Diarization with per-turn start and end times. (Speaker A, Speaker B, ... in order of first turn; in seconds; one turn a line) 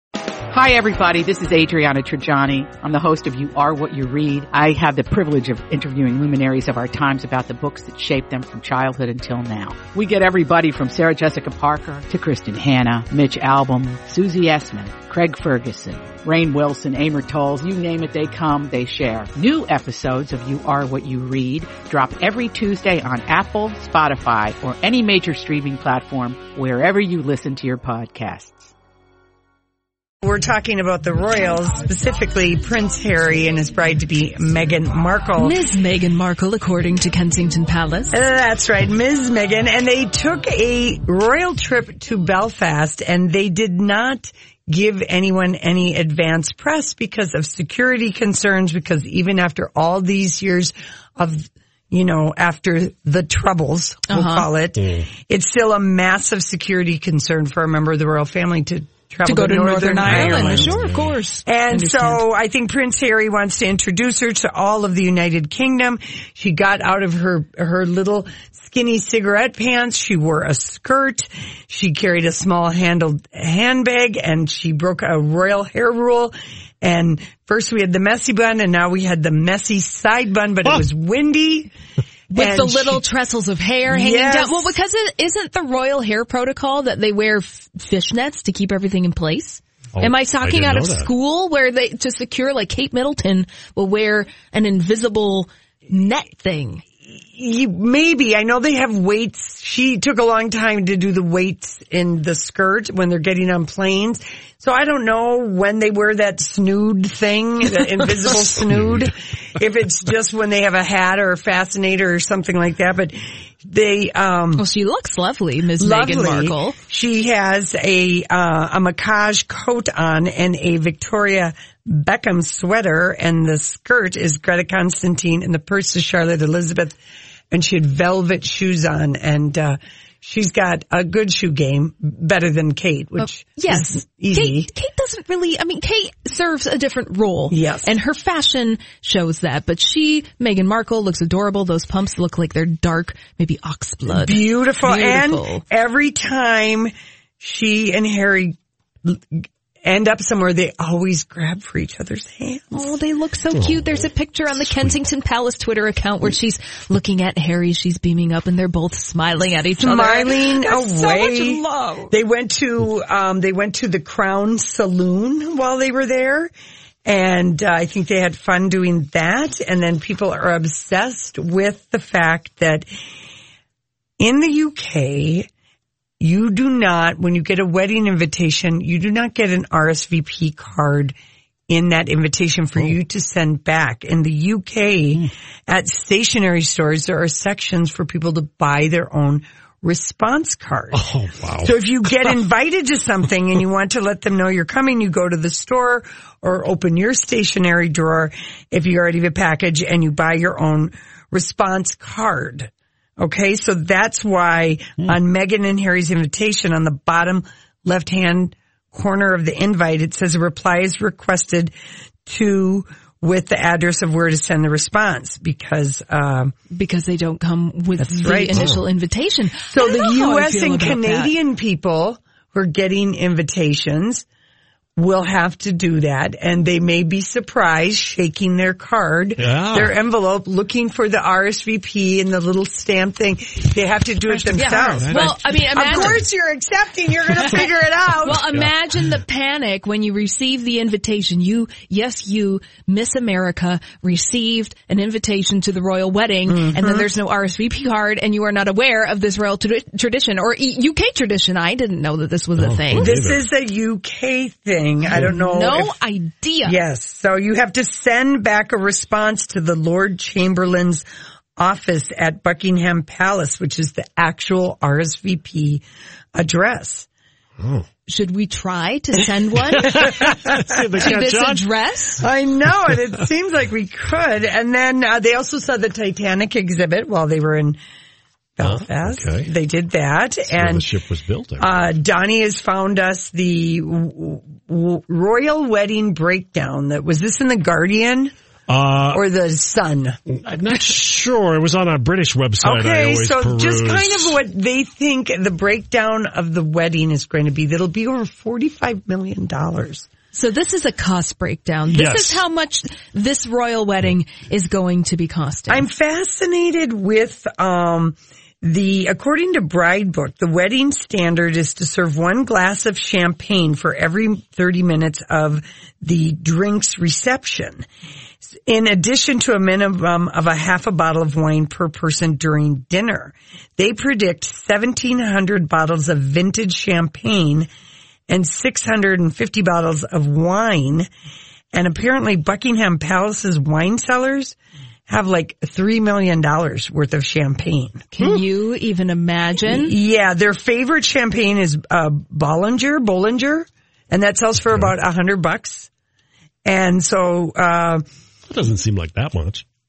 Speaker A: 0.5-28.7
Speaker B: 30.2-35.6
Speaker C: 35.4-38.1
Speaker B: 38.1-60.8
Speaker C: 54.1-54.5
Speaker D: 54.8-55.0
Speaker C: 59.2-62.2
Speaker D: 60.0-61.2
Speaker B: 61.4-81.7
Speaker B: 82.3-83.0
Speaker C: 82.3-96.8
Speaker B: 83.9-84.7
Speaker D: 89.9-91.1
Speaker B: 97.1-114.7
Speaker D: 108.7-109.0
Speaker C: 114.5-116.8
Speaker B: 115.8-127.0
Speaker B: 127.5-134.7
Speaker C: 133.2-145.6
Speaker B: 137.5-137.9
Speaker B: 144.1-152.9
Speaker C: 152.7-162.1
Speaker D: 153.5-154.1
Speaker B: 159.8-166.5
Speaker B: 167.0-172.8
Speaker B: 174.2-175.5
Speaker B: 176.2-181.1
Speaker B: 181.7-191.0
Speaker D: 190.9-191.8
Speaker B: 191.6-211.7
Speaker B: 212.2-216.5
Speaker C: 216.7-221.3
Speaker B: 218.0-218.7
Speaker D: 218.5-218.8
Speaker B: 219.7-224.2
Speaker B: 224.9-238.5
Speaker D: 229.4-229.9
Speaker D: 234.3-236.2
Speaker C: 234.6-236.2
Speaker C: 237.4-237.6
Speaker C: 238.2-253.2
Speaker B: 246.5-247.1
Speaker D: 252.6-253.4
Speaker B: 252.9-255.9
Speaker C: 255.2-256.8
Speaker B: 256.6-261.0
Speaker B: 261.6-265.8
Speaker B: 266.3-267.1
Speaker D: 267.6-267.9
Speaker C: 268.1-270.3
Speaker D: 269.9-271.6
Speaker C: 271.0-272.2
Speaker B: 272.2-277.8
Speaker B: 278.6-280.9
Speaker D: 278.6-279.5
Speaker D: 280.5-281.9
Speaker B: 281.6-288.3
Speaker D: 288.7-289.2
Speaker B: 289.1-290.2
Speaker D: 290.3-294.4
Speaker B: 292.6-300.1
Speaker C: 300.3-305.8
Speaker D: 301.9-302.4
Speaker B: 305.7-317.9
Speaker B: 318.4-327.7
Speaker B: 328.3-331.1
Speaker B: 331.7-334.6
Speaker B: 335.1-338.1
Speaker C: 338.1-340.0
Speaker B: 339.6-345.9
Speaker D: 344.7-344.9
Speaker B: 346.6-348.0
Speaker D: 348.5-349.6